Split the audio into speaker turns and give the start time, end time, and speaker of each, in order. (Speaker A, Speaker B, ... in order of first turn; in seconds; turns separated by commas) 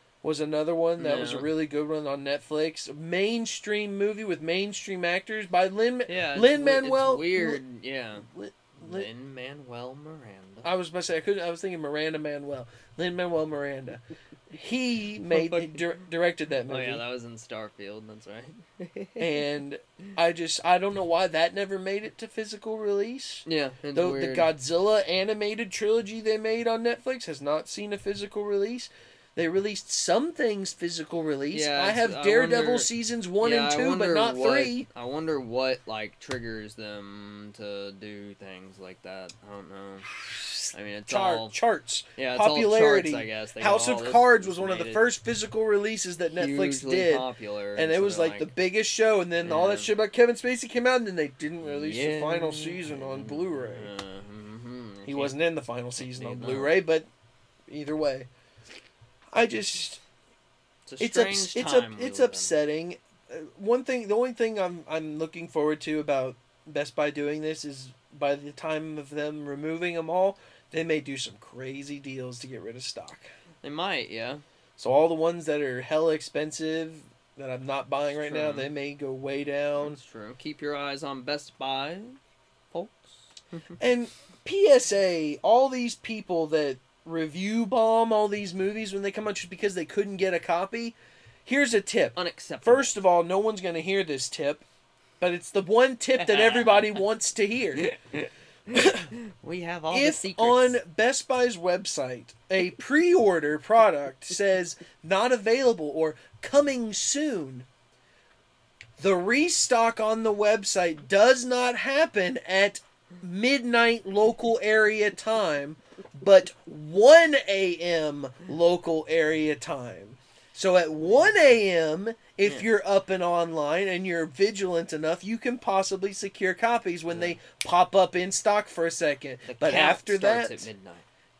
Speaker A: 0.2-7.6, Speaker B: 1.0-1.5, Speaker B: 6.1-8.3, Speaker A: 8.2-9.1, Speaker B: 8.8-10.7, Speaker A: 10.6-17.0, Speaker B: 15.3-15.8, Speaker B: 16.7-19.3, Speaker A: 19.2-34.9, Speaker B: 23.4-24.5, Speaker B: 31.5-40.1, Speaker A: 40.3-53.9, Speaker B: 40.7-41.6, Speaker B: 42.1-45.0, Speaker B: 46.4-48.5, Speaker B: 49.4-49.9, Speaker B: 51.6-55.3, Speaker A: 55.0-57.1, Speaker B: 56.0-56.8, Speaker A: 57.7-58.3, Speaker A: 59.3-60.0, Speaker B: 60.9-62.5, Speaker A: 61.0-73.3, Speaker B: 73.6-74.4, Speaker A: 74.8-80.0, Speaker B: 78.2-78.7, Speaker B: 79.8-82.2, Speaker B: 82.7-83.8, Speaker A: 83.8-94.6, Speaker B: 92.2-93.0, Speaker A: 95.2-97.9, Speaker B: 96.2-97.0, Speaker B: 97.8-100.8, Speaker A: 98.7-99.1, Speaker A: 99.9-107.7, Speaker A: 109.0-130.7, Speaker B: 127.1-127.4, Speaker B: 129.4-131.0